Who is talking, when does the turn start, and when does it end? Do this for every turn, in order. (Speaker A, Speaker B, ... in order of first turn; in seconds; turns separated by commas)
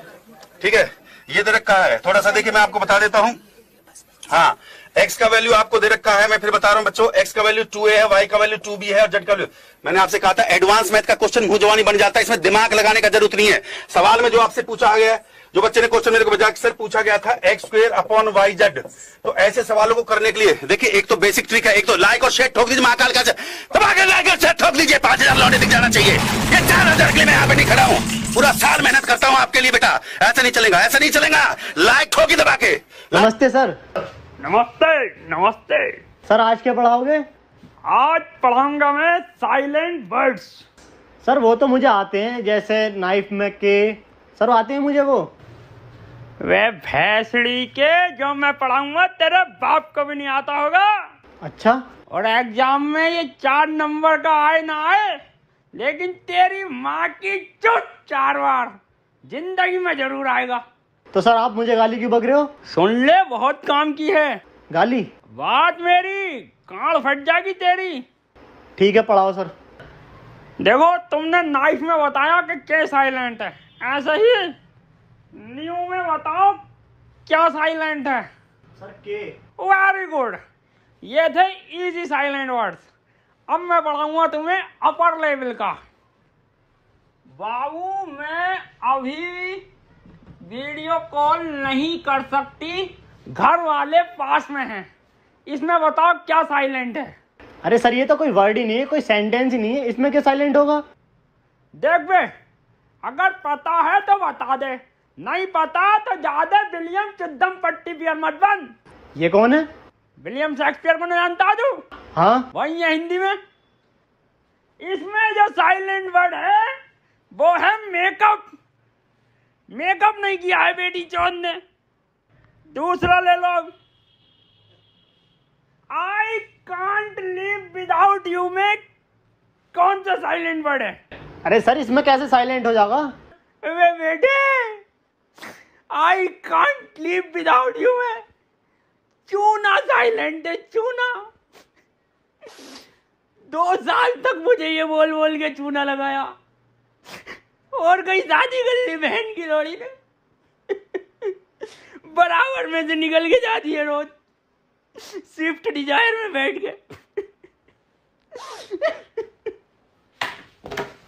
Speaker A: 0.6-3.4, Speaker A: 4.3-33.3, Speaker B: 33.1-33.8, Speaker C: 34.4-36.0, Speaker B: 36.3-37.2, Speaker C: 37.9-40.6, Speaker B: 41.2-45.3, Speaker C: 46.4-50.9, Speaker B: 51.4-51.8, Speaker C: 52.1-55.2, Speaker C: 55.7-58.7, Speaker C: 59.2-60.6, Speaker B: 61.1-62.5, Speaker C: 62.7-64.4, Speaker B: 64.7-65.1, Speaker C: 65.3-68.0, Speaker B: 68.8-69.5, Speaker C: 70.6-74.5, Speaker C: 75.3-76.6, Speaker C: 77.3-78.3, Speaker B: 78.8-79.3, Speaker C: 79.6-80.4, Speaker C: 81.0-82.8, Speaker C: 83.5-85.8, Speaker C: 87.4-89.6, Speaker C: 90.4-94.9, Speaker C: 95.5-97.1, Speaker B: 97.6-100.8, Speaker C: 101.8-102.3, Speaker C: 103.0-108.7, Speaker B: 109.2-109.7, Speaker C: 110.2-111.8, Speaker B: 112.2-112.5, Speaker C: 112.5-113.3, Speaker C: 114.8-116.7, Speaker C: 117.3-118.5, Speaker C: 119.7-121.6, Speaker C: 122.7-123.7, Speaker C: 125.9-128.8, Speaker C: 129.7-131.0, Speaker B: 131.4-133.1, Speaker C: 133.6-134.8, Speaker C: 135.9-138.2, Speaker C: 139.3-141.2, Speaker C: 143.5-146.3, Speaker C: 147.7-149.9, Speaker C: 150.9-151.3, Speaker C: 152.0-154.1, Speaker C: 155.0-156.8, Speaker C: 158.4-158.9